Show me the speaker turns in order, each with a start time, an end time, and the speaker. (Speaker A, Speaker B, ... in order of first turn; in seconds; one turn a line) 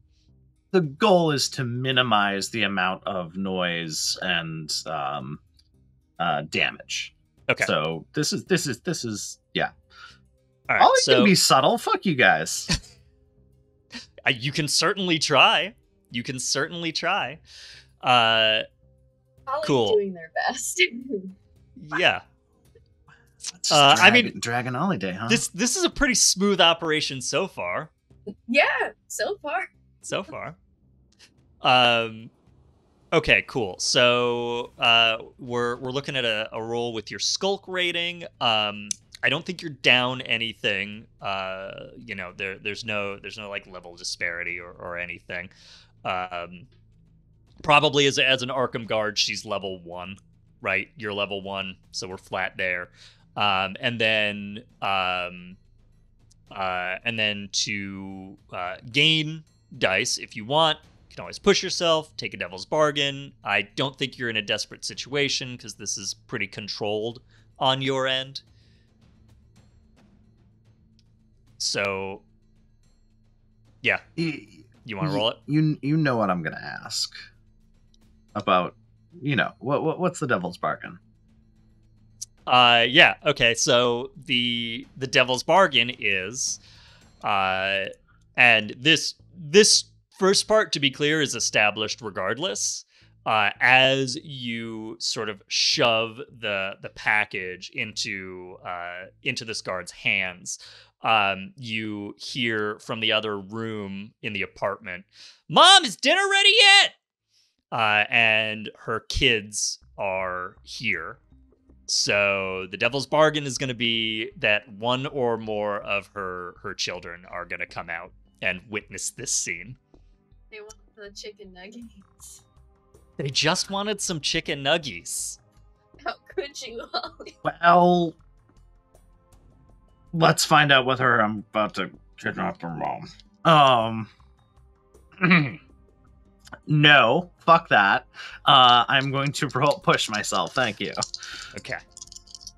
Speaker A: 0.7-5.4
Speaker A: 6.2-9.7
Speaker B: 10.7-11.3
Speaker A: 10.8-12.7
Speaker B: 14.2-17.4
Speaker B: 18.0-18.7
Speaker C: 19.5-21.3
Speaker B: 19.6-20.0
Speaker B: 21.8-22.2
Speaker A: 23.5-25.4
Speaker B: 23.7-24.3
Speaker B: 25.3-27.9
Speaker C: 28.5-29.7
Speaker B: 30.1-30.6
Speaker B: 31.6-32.3
Speaker B: 33.1-45.5
Speaker B: 46.0-46.7
Speaker B: 47.6-55.6
Speaker B: 56.5-68.4
Speaker B: 71.6-72.2
Speaker A: 74.2-77.2
Speaker B: 74.8-75.4
Speaker A: 78.3-81.0
Speaker B: 82.5-86.6
Speaker B: 87.2-107.0
Speaker B: 107.7-111.2
Speaker B: 111.9-119.8
Speaker C: 120.5-122.4
Speaker B: 123.2-125.4
Speaker C: 126.0-127.4
Speaker A: 127.4-128.2
Speaker A: 130.1-134.1
Speaker A: 135.2-135.6
Speaker A: 136.7-141.0
Speaker B: 141.5-141.8